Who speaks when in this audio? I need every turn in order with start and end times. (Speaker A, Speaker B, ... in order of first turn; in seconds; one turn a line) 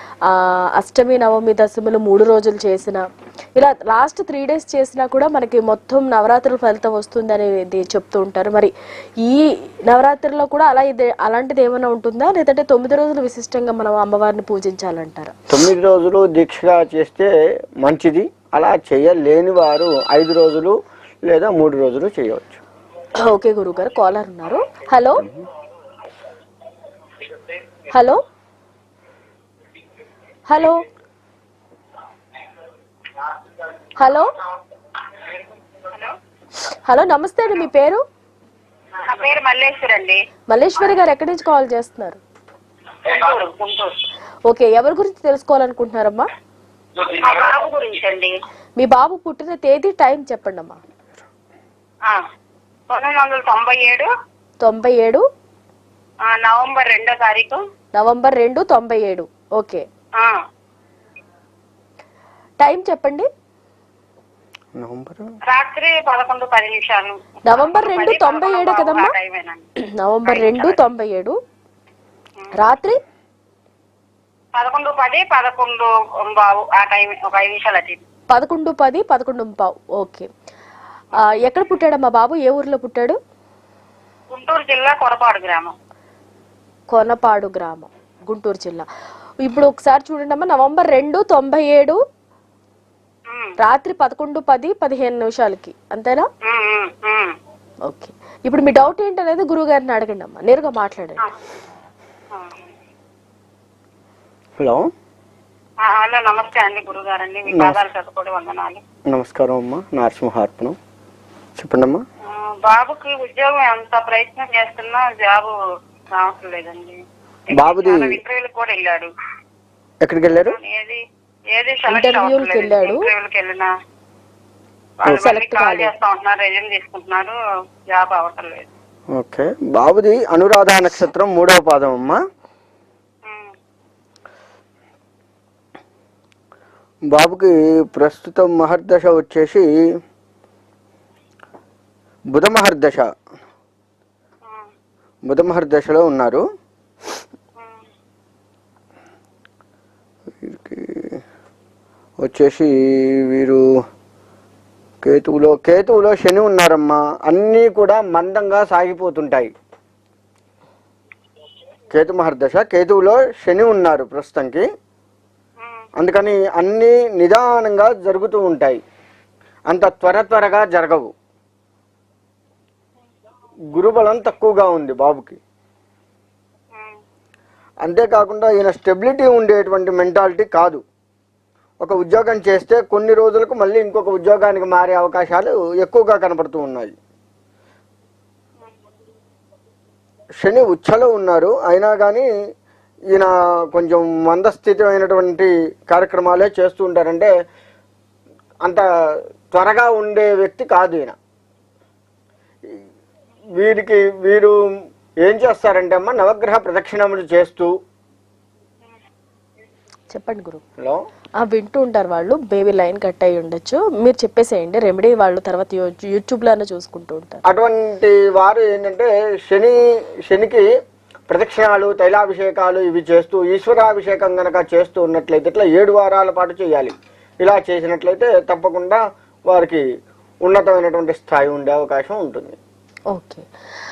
Speaker A: 0.3-3.0
Speaker A: 3.6-15.3
Speaker B: 15.5-17.3
Speaker B: 17.8-20.8
Speaker B: 21.3-22.6
Speaker A: 23.2-25.3
Speaker A: 27.9-28.2
Speaker A: 30.5-30.8
Speaker A: 34.0-34.3
Speaker C: 35.9-36.2
Speaker A: 36.7-38.0
Speaker C: 39.0-40.2
Speaker A: 40.5-42.2
Speaker C: 43.0-44.0
Speaker A: 44.5-46.3
Speaker C: 47.0-48.3
Speaker A: 48.8-50.8
Speaker C: 52.9-54.1
Speaker A: 54.6-55.2
Speaker C: 56.2-57.6
Speaker A: 58.0-59.9
Speaker A: 62.6-63.3
Speaker B: 64.8-65.3
Speaker C: 65.5-69.7
Speaker A: 67.5-69.1
Speaker A: 69.8-71.4
Speaker C: 70.2-70.8
Speaker A: 72.5-73.0
Speaker C: 74.6-78.0
Speaker A: 78.3-80.3
Speaker A: 81.2-83.2
Speaker C: 84.3-85.8
Speaker A: 86.9-88.9
Speaker A: 89.4-92.0
Speaker C: 93.3-93.6
Speaker A: 93.6-96.3
Speaker C: 96.5-97.4
Speaker A: 97.9-101.3
Speaker C: 102.3-102.7
Speaker B: 104.6-104.9
Speaker C: 105.8-108.8
Speaker B: 107.5-107.8
Speaker B: 109.1-110.8
Speaker B: 111.6-112.0
Speaker C: 112.3-115.5
Speaker C: 116.2-119.1
Speaker B: 117.5-118.2
Speaker B: 120.0-120.6
Speaker C: 120.3-121.0
Speaker C: 121.5-123.7
Speaker A: 121.9-123.0
Speaker C: 125.0-127.4
Speaker A: 125.0-125.9
Speaker C: 127.9-128.7
Speaker B: 129.1-132.2
Speaker C: 133.2-133.5
Speaker B: 137.1-139.7
Speaker B: 142.3-143.1
Speaker C: 144.4-144.7
Speaker B: 145.3-146.4
Speaker C: 147.6-147.9
Speaker B: 150.4-151.2
Speaker B: 152.2-153.6
Speaker B: 155.0-159.5
Speaker B: 161.9-164.7
Speaker C: 165.6-165.8
Speaker B: 166.0-168.8
Speaker B: 169.7-171.1
Speaker B: 173.7-175.4
Speaker C: 176.7-177.0
Speaker B: 177.8-180.8
Speaker B: 181.8-187.0
Speaker B: 190.4-192.3
Speaker B: 193.1-197.3
Speaker B: 199.5-201.2
Speaker B: 203.6-204.6
Speaker B: 205.2-207.7
Speaker A: 210.1-210.6
Speaker A: 211.4-217.4
Speaker B: 217.5-220.7
Speaker B: 221.3-229.8
Speaker B: 230.4-232.6
Speaker A: 233.1-233.5